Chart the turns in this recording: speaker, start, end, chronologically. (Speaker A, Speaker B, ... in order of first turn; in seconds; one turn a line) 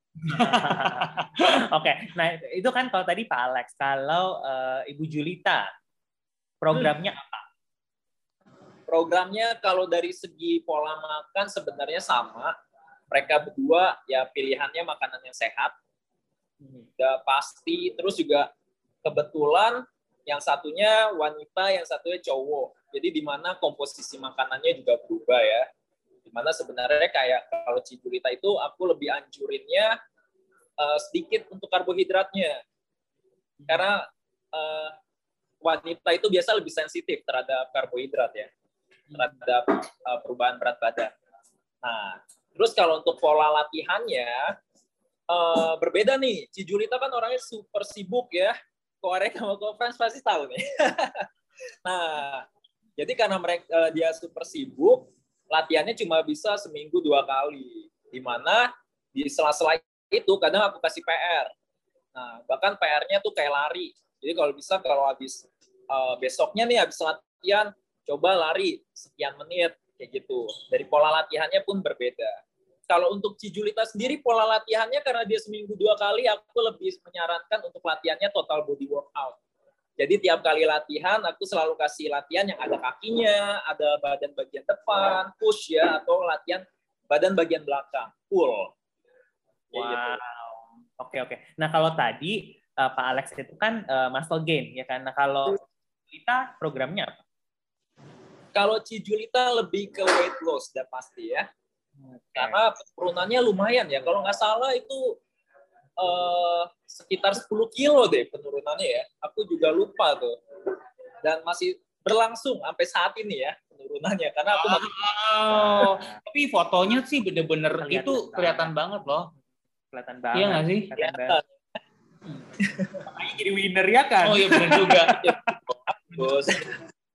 Speaker A: 0.3-1.3
Speaker B: 0.3-5.7
Speaker B: 6.6-7.4
Speaker C: 8.9-12.5
Speaker C: 13.1-15.7
Speaker C: 17.0-18.5
Speaker C: 19.0-25.7
Speaker C: 26.3-29.9
Speaker C: 30.8-32.6
Speaker C: 33.7-34.9
Speaker C: 35.6-38.5
Speaker C: 39.1-41.1
Speaker C: 41.8-44.5
Speaker C: 45.3-51.3
Speaker C: 51.9-52.4
Speaker C: 53.0-61.5
Speaker C: 62.1-72.4
Speaker C: 72.9-79.4
Speaker C: 80.0-88.7
Speaker C: 89.7-90.2
Speaker B: 89.7-95.6
Speaker B: 96.1-97.2
Speaker C: 98.5-101.5
Speaker C: 102.3-105.2
Speaker C: 106.0-110.4
Speaker C: 111.2-114.9
Speaker A: 114.5-119.3
Speaker B: 115.5-116.2
Speaker B: 117.8-118.7
Speaker B: 119.9-121.4
Speaker A: 120.3-120.9
Speaker C: 121.0-121.4
Speaker C: 122.6-123.0
Speaker B: 123.0-125.3
Speaker A: 124.2-125.2
Speaker C: 124.8-126.7